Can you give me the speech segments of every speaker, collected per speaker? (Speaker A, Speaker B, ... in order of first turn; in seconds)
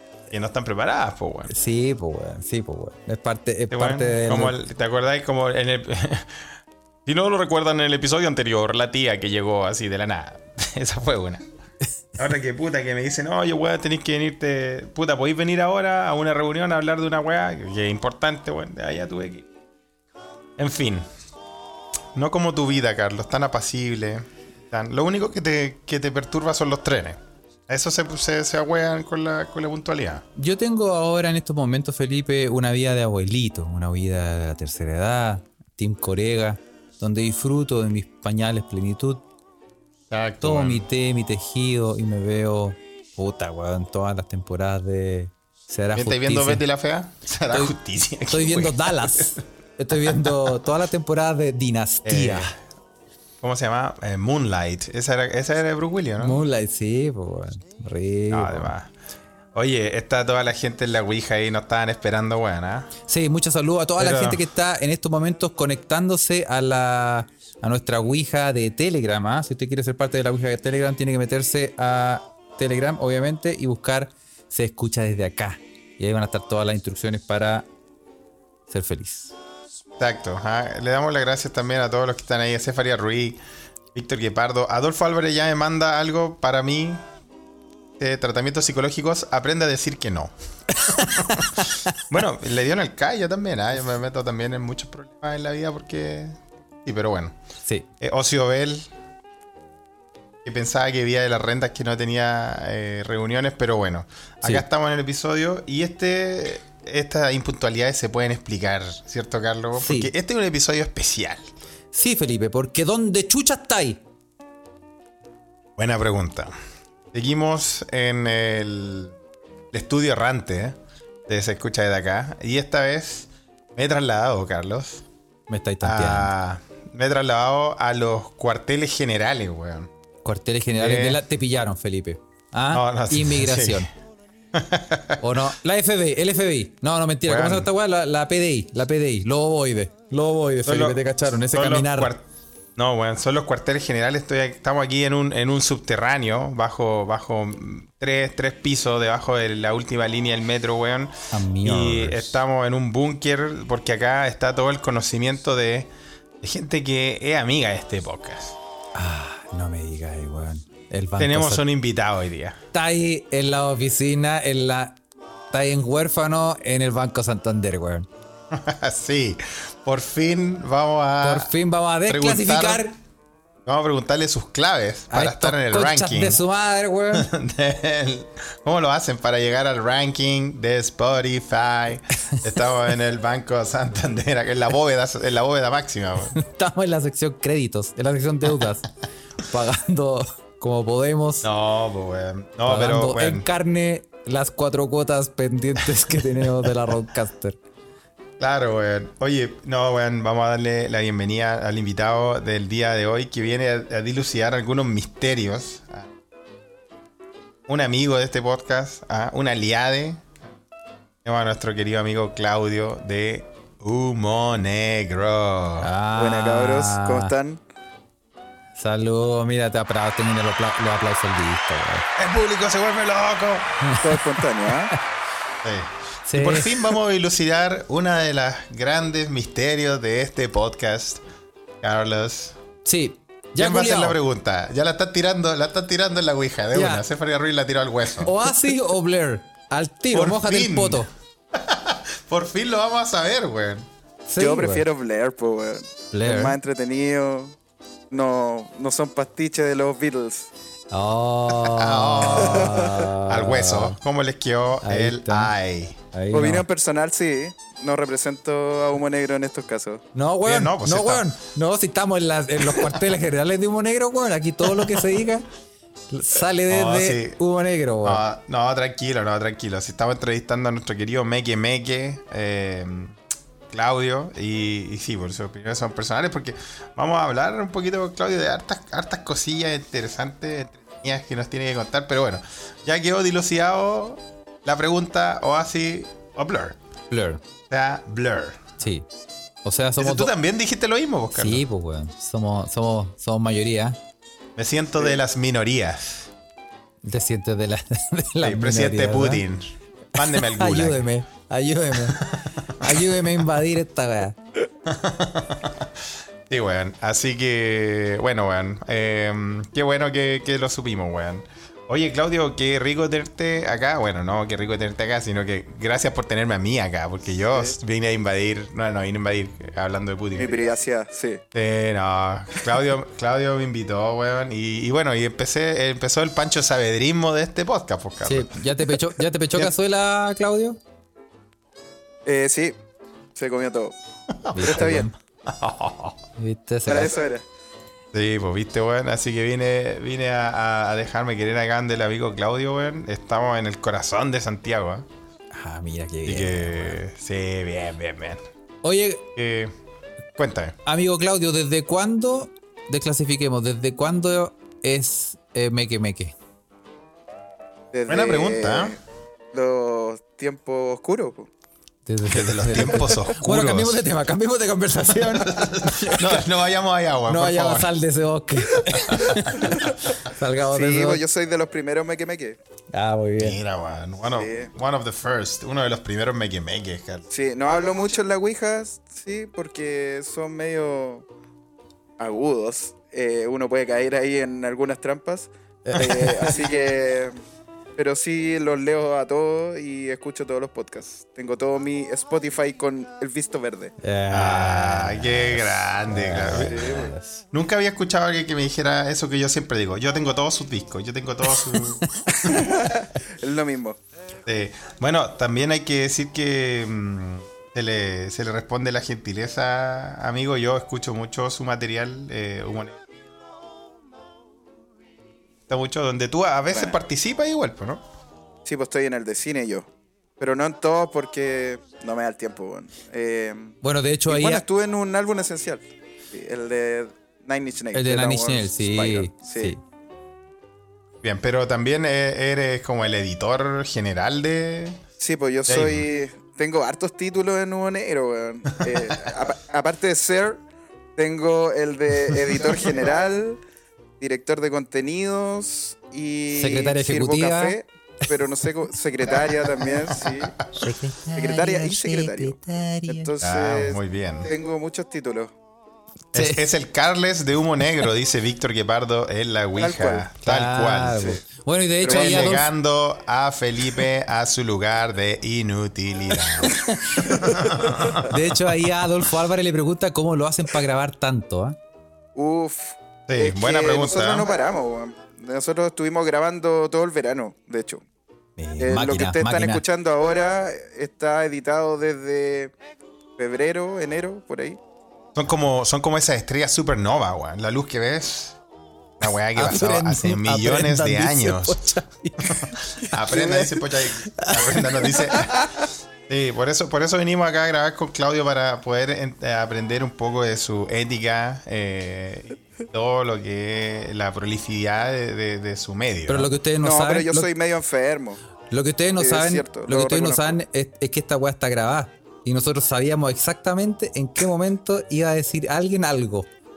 Speaker A: 0.3-1.5, 3.7-6.4, 7.1-11.4, 12.2-19.5, 20.6-21.1, 22.1-30.2, 40.1-40.9, 45.9-49.4, 49.9-50.6, 52.0-52.5, 53.4-56.4, 58.3-58.9, 59.5-62.9, 64.0-64.4, 80.0-83.4, 83.9-87.0, 88.0-97.3, 98.0-98.9, 100.4-111.5, 115.8-116.5, 117.1-119.2, 119.7-125.0, 125.8-129.9, 130.8-131.2, 132.7-133.9, 134.5-135.2, 137.2-137.7, 140.6-142.2, 142.8-155.9, 156.4-158.6, 161.2-162.6, 168.5-171.5, 172.1-172.8, 173.7-176.4, 177.1-186.4, 191.4-193.4, 198.4-206.1, 207.7-210.2, 211.2-215.9, 222.2-223.8, 225.6-231.2, 231.8-232.6, 233.6-238.3, 240.1-243.9, 251.6-256.0, 260.4-261.3, 266.7-267.4, 268.0-273.2, 273.7-286.8, 287.7-288.7, 290.0-291.6, 294.6-296.3, 298.4-301.1, 302.1-303.0, 304.9-305.9, 306.5-320.6, 321.5-328.6, 334.4-334.9, 335.4-336.2, 338.1-345.1, 346.2-348.4, 349.4-349.7, 350.4-350.8, 358.1-358.9, 362.2-364.0, 365.3-367.9, 369.1-369.5, 373.4-377.2, 394.3-397.0, 397.5-402.6, 404.5-413.0, 415.7-418.0, 431.2-435.0, 435.7-436.1, 450.1-450.7, 453.4-454.5, 456.3-461.4, 462.0-468.7, 473.3-474.5, 485.3-488.6, 489.2-491.8, 492.5-495.7, 496.3-506.5
Speaker B: 1.5-4.5, 30.4-39.2, 40.4-46.6, 48.3-52.5, 56.2-58.7, 63.1-77.7, 78.7-79.3, 90.7-92.0, 109.8-110.1, 111.9-114.0, 125.5-126.3, 130.2-133.9, 135.2-142.1, 151.3-152.4, 158.9-161.6, 162.7-165.0, 165.5-168.1, 171.2-172.9, 175.1-177.3, 186.3-191.4, 192.7-197.6, 215.8-217.3, 218.8-222.1, 223.8-224.2, 226.2-227.0, 232.8-234.2, 236.7-237.0, 238.2-241.1, 244.3-244.8, 246.1-246.6, 250.9-254.0, 254.8-255.5, 256.1-256.6, 260.1-265.4, 266.1-268.2, 287.1-287.4, 288.8-289.1, 289.6-290.3, 291.3-294.0, 297.0-299.4, 300.1-304.4, 328.2-330.8, 334.5-335.1, 336.4-337.1, 345.5-347.0, 348.8-349.2, 350.9-356.3, 362.1-366.4, 367.3-371.2, 372.9-373.6, 385.9-386.5, 394.0-397.4, 423.8-424.6, 427.9-429.8, 446.5-447.8, 450.8-453.3, 456.3-456.6, 460.4-462.7, 466.5-467.3, 468.2-471.8, 478.6-479.8, 489.5-493.1, 494.3-495.2, 506.3-507.5, 508.7-516.5
Speaker C: 216.2-217.6, 224.0-224.9, 244.4-247.6, 248.1-250.5, 252.4-253.1, 256.3-260.0, 320.4-321.4, 332.2-332.8, 333.3-333.9, 334.6-335.1, 336.9-337.4, 357.9-359.0, 359.5-361.5, 369.6-370.1, 370.7-372.6, 374.4-374.7, 377.3-381.2, 382.2-387.4, 388.0-393.9, 396.5-397.1, 402.4-404.0, 416.7-417.0, 418.6-419.9, 420.4-429.7, 435.2-440.6, 441.2-443.6, 444.2-450.6, 451.4-452.6, 453.1-455.5, 459.8-460.3, 462.0-462.6, 467.3-468.1, 472.4-478.0, 478.8-482.7, 483.4-484.8, 493.2-493.8, 495.5-495.8, 506.8-508.4, 509.2-510.6